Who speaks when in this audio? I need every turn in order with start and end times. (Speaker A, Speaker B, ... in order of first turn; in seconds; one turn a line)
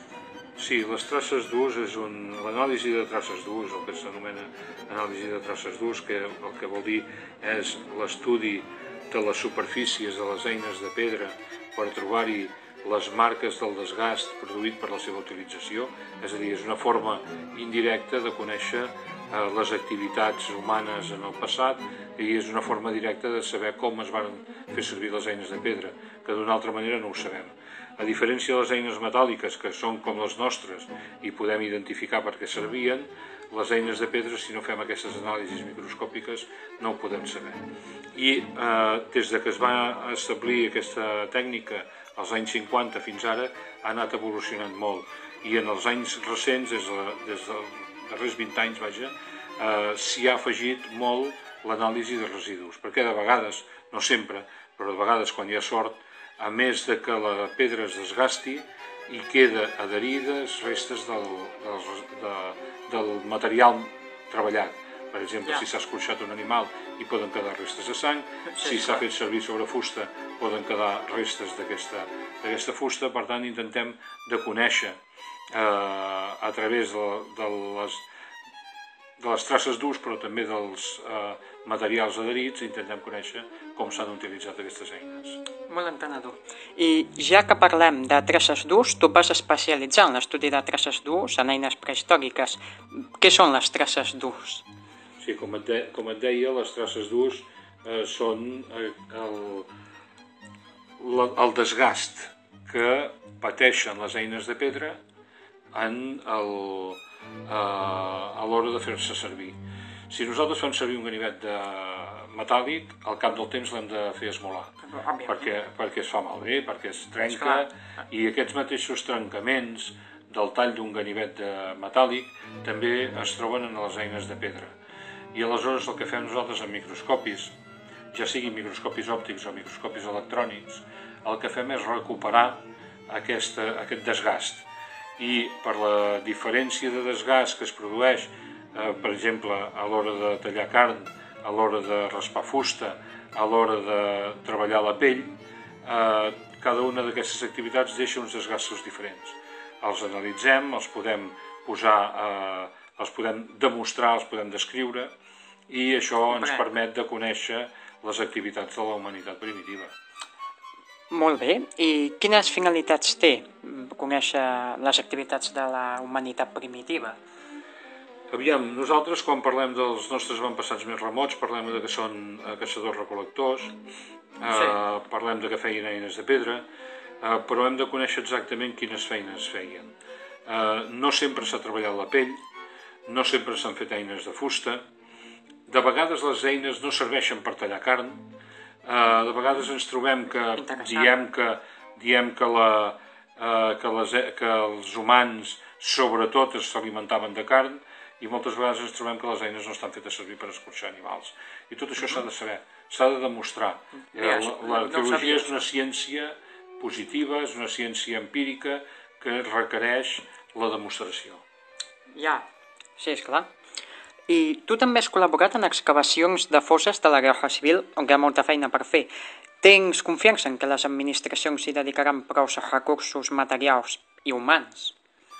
Speaker A: 0.6-37.6
Speaker A: 38.1-75.0
Speaker B: 68.5-69.0
Speaker A: 75.5-78.0
Speaker A: 79.2-85.4
Speaker B: 85.7-94.6
Speaker A: 95.2-99.7
Speaker A: 101.0-105.0
Speaker A: 105.7-124.7
Speaker B: 114.8-115.5
Speaker B: 117.2-117.7
Speaker A: 125.3-127.5
Speaker A: 128.1-134.7
Speaker A: 135.2-155.1
Speaker A: 155.7-159.9
Speaker B: 156.2-156.7
Speaker B: 161.1-167.2
Speaker A: 168.3-173.8
Speaker A: 174.4-176.6
Speaker B: 174.4-174.8
Speaker A: 177.2-179.9
Speaker A: 180.4-182.4
Speaker A: 183.1-184.8
Speaker A: 185.7-188.2
Speaker A: 188.8-211.4
Speaker B: 190.6-191.1
Speaker B: 204.1-205.6
Speaker B: 212.1-212.4
Speaker B: 213.0-213.5
Speaker B: 214.3-224.9